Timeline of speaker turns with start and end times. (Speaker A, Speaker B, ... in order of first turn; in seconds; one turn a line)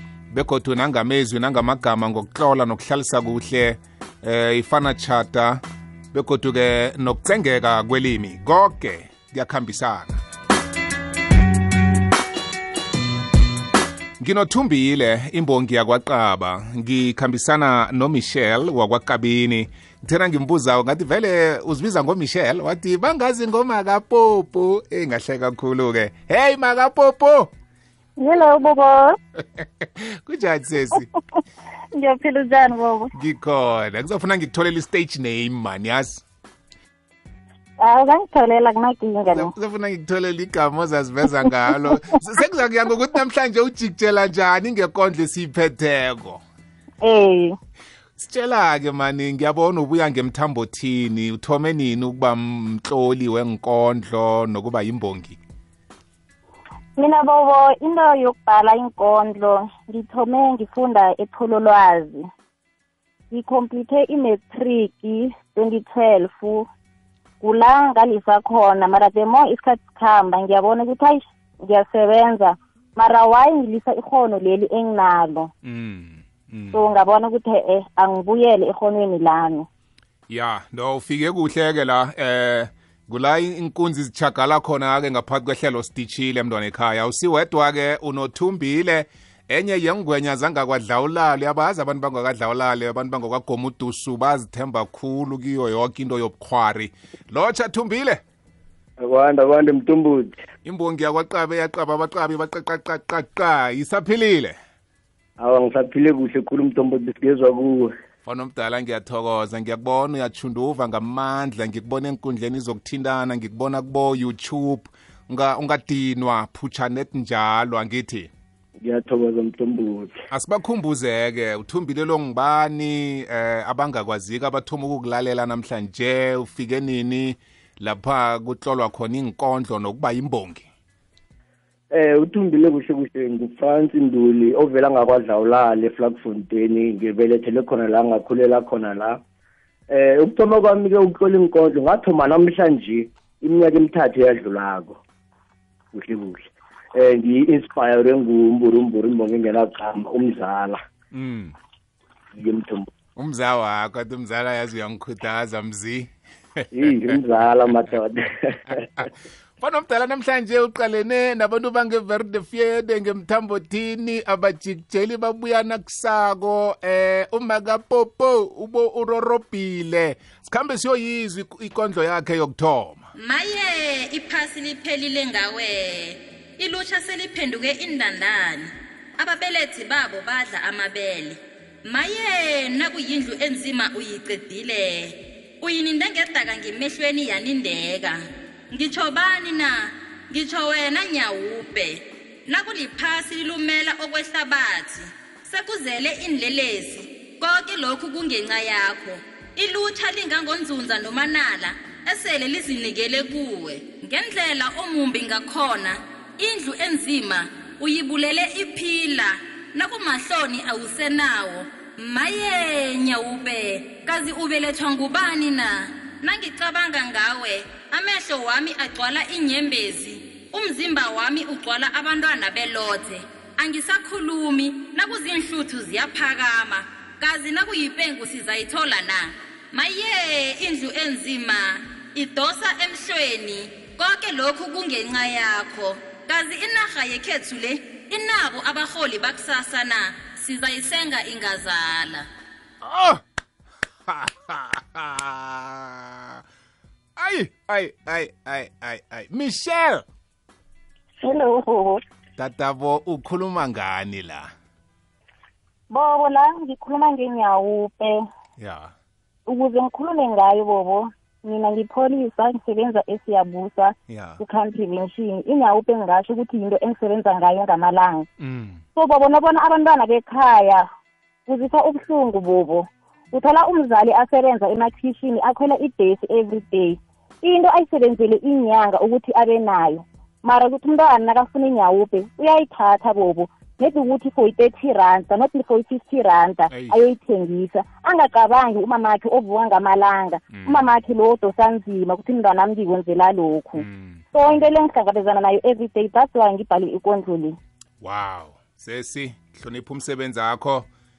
Speaker A: 0.3-5.6
Speaker A: 6.1-10.2
Speaker A: 14.2-27.5
Speaker B: 28.2-29.1
Speaker A: 29.6-31.1
Speaker B: 31.9-33.1
Speaker A: 33.1-36.2
Speaker B: 37.8-39.5
Speaker A: 39.3-46.4
Speaker B: 47.0-47.5
Speaker A: 48.2-55.4
Speaker B: 57.0-62.3
Speaker B: 63.3-66.7
Speaker B: 67.4-75.5
Speaker A: 75.6-76.9
Speaker B: 76.7-79.7
Speaker A: 80.3-98.2
Speaker C: 99.1-100.3
Speaker A: 100.6-104.5
Speaker C: 105.5-107.8
Speaker A: 108.2-118.3
Speaker C: 118.9-120.1
Speaker A: 120.3-130.7
Speaker C: 132.1-139.1
Speaker C: 140.2-143.1
Speaker C: 143.6-144.9
Speaker C: 146.0-146.4
Speaker C: 147.1-150.8
Speaker A: 151.1-151.5
Speaker C: 152.4-152.8
Speaker A: 153.2-157.2
Speaker C: 157.2-158.1
Speaker A: 159.6-173.0
Speaker D: 173.2-242.2
Speaker A: 242.8-243.2
Speaker A: 244.1-246.4
Speaker A: 247.2-250.0
Speaker B: 251.2-252.0
Speaker A: 252.4-254.5
Speaker B: 255.9-258.2
Speaker A: 258.6-258.9
Speaker B: 259.4-268.3
Speaker A: 264.1-264.4
Speaker A: 268.4-268.8
Speaker B: 268.9-270.9
Speaker B: 271.4-297.6
Speaker A: 286.7-287.0
Speaker A: 290.5-290.8
Speaker A: 293.8-294.7
Speaker A: 298.0-300.9